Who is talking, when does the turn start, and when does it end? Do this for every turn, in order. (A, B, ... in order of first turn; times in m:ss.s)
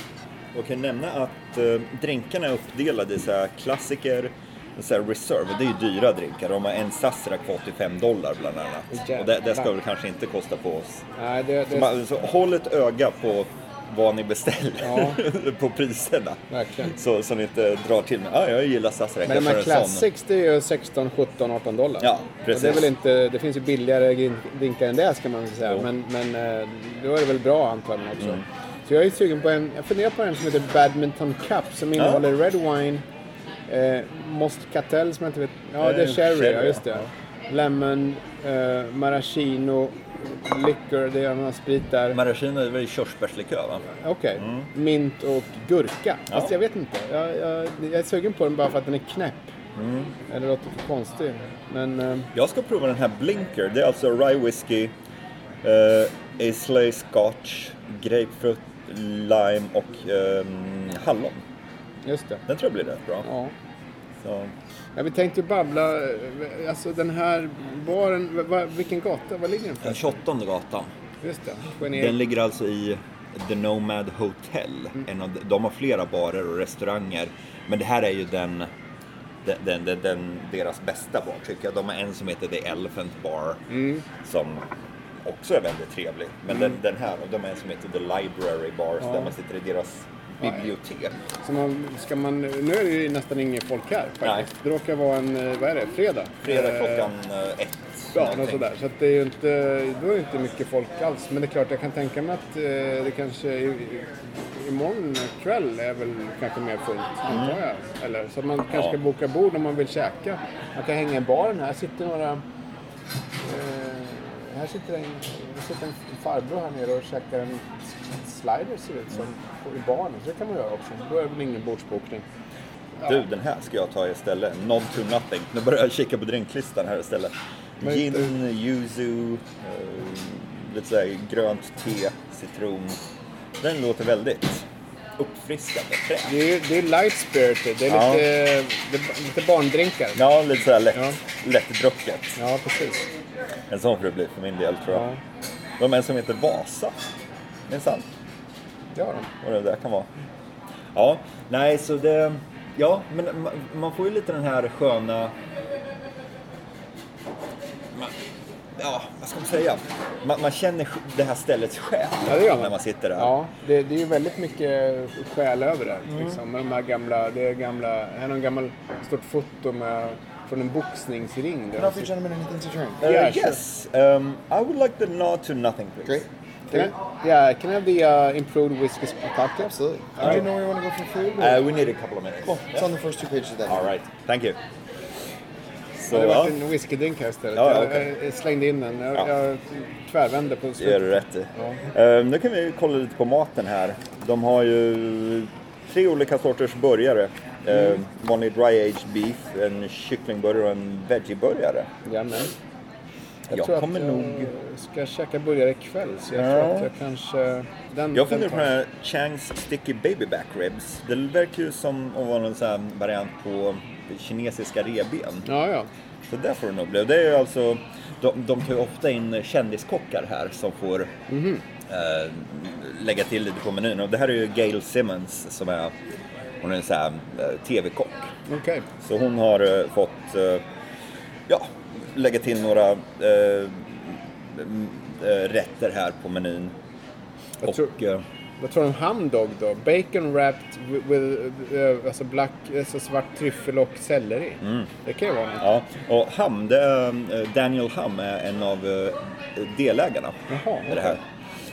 0:00.5-0:11.0 A
0:08.9-0:09.7 B
0:11.2-0:11.9 B
0:11.7-0:20.1 A
0:14.8-0:15.2 B
0:16.5-0:16.9 B
0:19.3-0:33.0 B
0:22.0-0:22.9 A
0:32.0-0:32.2 A
0:33.7-0:42.2 B
0:35.8-0:37.0 A
0:42.1-0:43.8 A
0:44.0-0:49.5 B
0:44.4-0:44.7 A
0:49.8-0:50.1 A
0:50.3-0:52.3 B
0:52.3-0:54.9 A
0:55.6-1:01.4 A
1:02.0-1:02.4 B
1:02.5-1:03.3 A
1:03.2-1:03.5 B
1:04.2-1:04.5 A
1:05.0-1:10.2 B
1:09.8-1:10.9 A
1:11.2-1:12.2 B
1:11.8-1:18.7 A
1:19.4-1:23.6 A
1:23.7-1:24.0 B
1:24.2-1:24.6 A
1:25.2-1:31.1 A
1:26.5-1:26.8 B
1:29.0-1:29.3 B
1:31.4-1:37.1 B
1:36.4-1:38.6 A
1:38.1-1:52.4 B
1:47.3-1:47.6 A
1:53.4-2:02.2 B
2:03.0-2:13.0 A
2:07.8-2:08.3 B
2:13.6-2:14.7 A
2:15.2-2:16.4 A
2:16.3-2:20.2 B
2:17.9-2:18.3 A
2:20.2-2:22.4 A
2:22.4-2:23.1 B
2:23.7-2:25.0 A
2:24.9-2:25.2 B
2:25.8-2:27.0 A
2:27.7-2:28.1 A
2:29.0-2:29.3 B
2:29.4-2:30.1 A
2:30.9-2:35.3 A
2:38.8-2:43.3 A
2:42.3-2:52.1 B
2:46.1-2:46.4 A
2:51.8-2:53.0 C
2:53.0-2:56.3 A
2:53.0-2:53.6 B
2:56.0-2:56.9 C
2:56.7-3:00.4 B
2:59.6-3:01.6 C
3:01.4-3:02.9 A
3:02.7-3:04.0 C
3:03.7-3:04.6 A
3:06.0-3:06.6 A
3:06.1-3:11.8 B
3:07.5-3:08.1 A
3:10.8-3:21.9 A
3:22.0-3:22.5 B
3:23.5-3:24.5 A
3:23.5-3:28.7 B
3:26.3-3:26.9 A
3:28.1-3:35.5 A
3:35.4-3:35.9 B
3:36.3-3:41.1 A
3:41.3-3:41.6 B
3:41.9-3:45.9 A
3:46.6-3:48.3 A
3:48.5-3:48.8 B
3:49.0-3:50.6 A
3:51.5-3:56.7 A
3:57.6-3:57.9 B
3:57.6-3:58.2 A
3:58.6-4:05.6 B
4:04.6-4:04.9 A
4:05.6-4:11.2 A
4:10.5-4:11.2 B